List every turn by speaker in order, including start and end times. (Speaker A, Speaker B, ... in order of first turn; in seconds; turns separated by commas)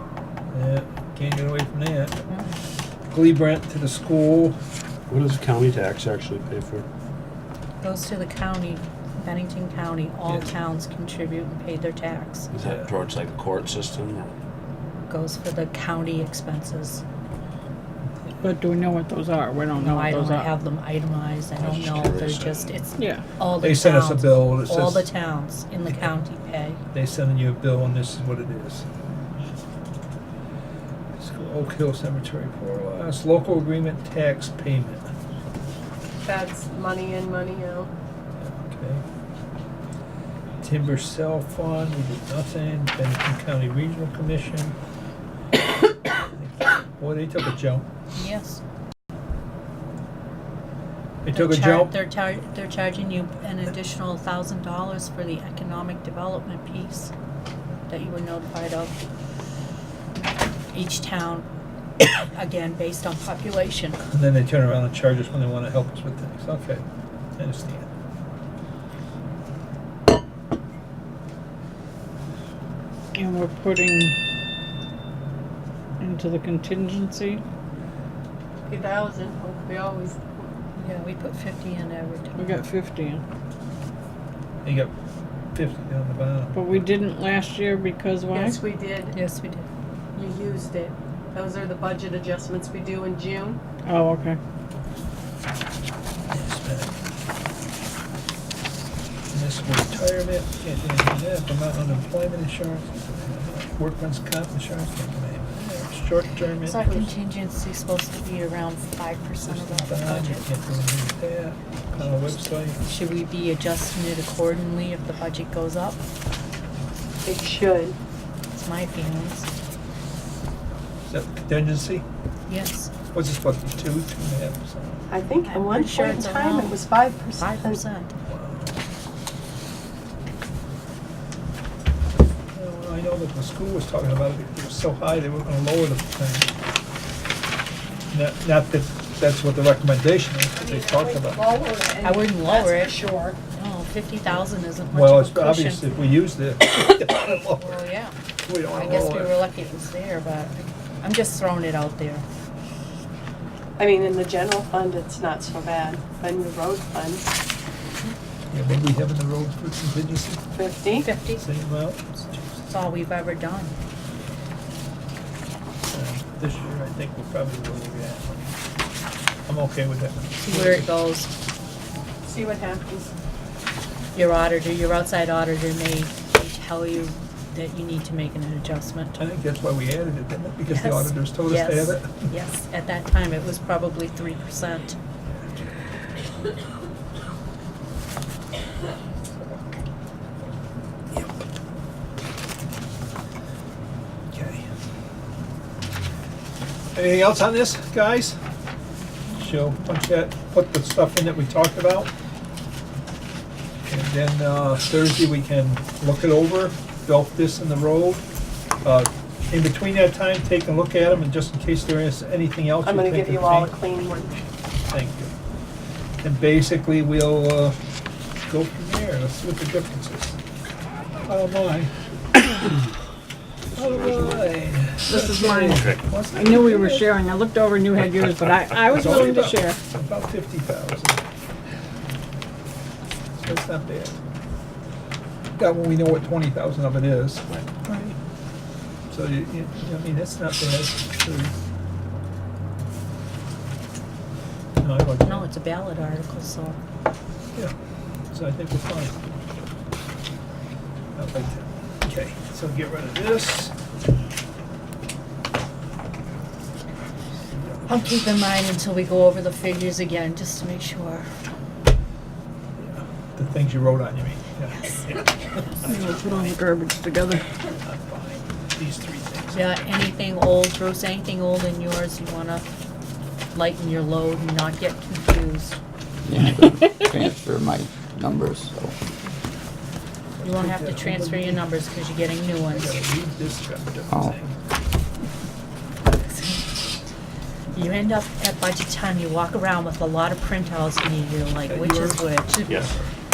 Speaker A: 0.5-2.2, Speaker A: 3.1-4.5, Speaker B: 5.1-6.8, Speaker C: 7.8-12.5, Speaker A: 10.2-10.5, Speaker B: 12.5-14.3, Speaker C: 15.1-17.0, Speaker D: 18.4-20.5, Speaker C: 19.8-26.8, Speaker B: 21.6-22.8, Speaker D: 23.0-23.2, Speaker A: 23.6-25.1, Speaker A: 26.9-28.9, Speaker A: 31.2-35.1, Speaker E: 36.2-37.9, Speaker A: 38.4-39.0, Speaker A: 40.6-44.8, Speaker A: 46.3-47.9, Speaker C: 48.1-48.6, Speaker A: 51.2-51.9, Speaker C: 51.3-57.1, Speaker C: 57.9-58.9, Speaker C: 60.7-61.4, Speaker C: 62.0-64.0, Speaker A: 64.0-66.8, Speaker A: 67.4-67.9, Speaker D: 73.1-74.1, Speaker D: 76.0-77.4, Speaker E: 78.7-80.4, Speaker C: 80.8-82.6, Speaker D: 82.4-83.2, Speaker A: 84.6-84.9, Speaker A: 85.5-86.8, Speaker D: 86.5-88.6, Speaker E: 88.3-89.1, Speaker C: 89.1-89.7, Speaker E: 90.1-93.6, Speaker D: 93.8-94.4, Speaker A: 96.3-96.9, Speaker A: 99.3-107.1, Speaker C: 106.6-110.5, Speaker A: 109.4-112.8, Speaker C: 112.7-116.0, Speaker E: 117.2-118.0, Speaker C: 118.5-119.5, Speaker A: 121.1-122.0, Speaker C: 122.5-122.9, Speaker A: 123.1-125.0, Speaker E: 125.1-127.8, Speaker C: 125.4-126.8, Speaker C: 127.4-128.1, Speaker A: 128.3-128.8, Speaker A: 132.5-136.5, Speaker A: 138.1-141.6, Speaker E: 140.5-143.4, Speaker C: 142.0-143.0, Speaker C: 143.5-145.9, Speaker A: 144.9-147.9, Speaker C: 147.3-148.1, Speaker A: 148.4-149.4, Speaker C: 148.7-152.2, Speaker E: 153.8-157.2, Speaker A: 158.5-160.4, Speaker E: 160.5-161.1, Speaker C: 160.9-161.5, Speaker A: 161.3-162.0, Speaker C: 162.1-163.7, Speaker A: 165.9-168.5, Speaker A: 169.5-170.9, Speaker C: 170.4-171.3, Speaker E: 172.2-173.1, Speaker C: 174.1-179.2, Speaker A: 179.2-182.3, Speaker C: 180.7-185.0, Speaker A: 191.1-191.4, Speaker A: 194.3-194.7, Speaker A: 196.9-198.4, Speaker A: 199.3-202.1, Speaker A: 203.9-208.2, Speaker A: 208.8-213.8, Speaker E: 212.8-214.4, Speaker A: 214.9-215.3, Speaker A: 216.2-217.8, Speaker A: 218.4-220.4, Speaker A: 221.3-221.9, Speaker A: 223.7-227.1, Speaker B: 223.8-224.5, Speaker D: 225.0-229.8, Speaker B: 225.7-226.0, Speaker A: 228.8-231.2, Speaker A: 233.3-234.2, Speaker A: 235.6-237.5, Speaker C: 237.8-238.2, Speaker A: 239.1-241.5, Speaker A: 244.8-245.5, Speaker C: 245.2-246.8, Speaker A: 248.3-249.3, Speaker A: 251.2-253.7, Speaker A: 257.4-258.1, Speaker C: 257.9-261.3, Speaker A: 262.8-266.5, Speaker D: 265.9-267.4, Speaker A: 267.8-269.6, Speaker C: 269.5-272.7, Speaker C: 273.5-275.8, Speaker F: 276.2-278.9, Speaker A: 280.4-281.6, Speaker C: 280.4-283.0, Speaker A: 282.7-284.6, Speaker F: 284.1-284.4, Speaker C: 286.1-286.9, Speaker C: 287.7-292.9, Speaker A: 291.7-292.3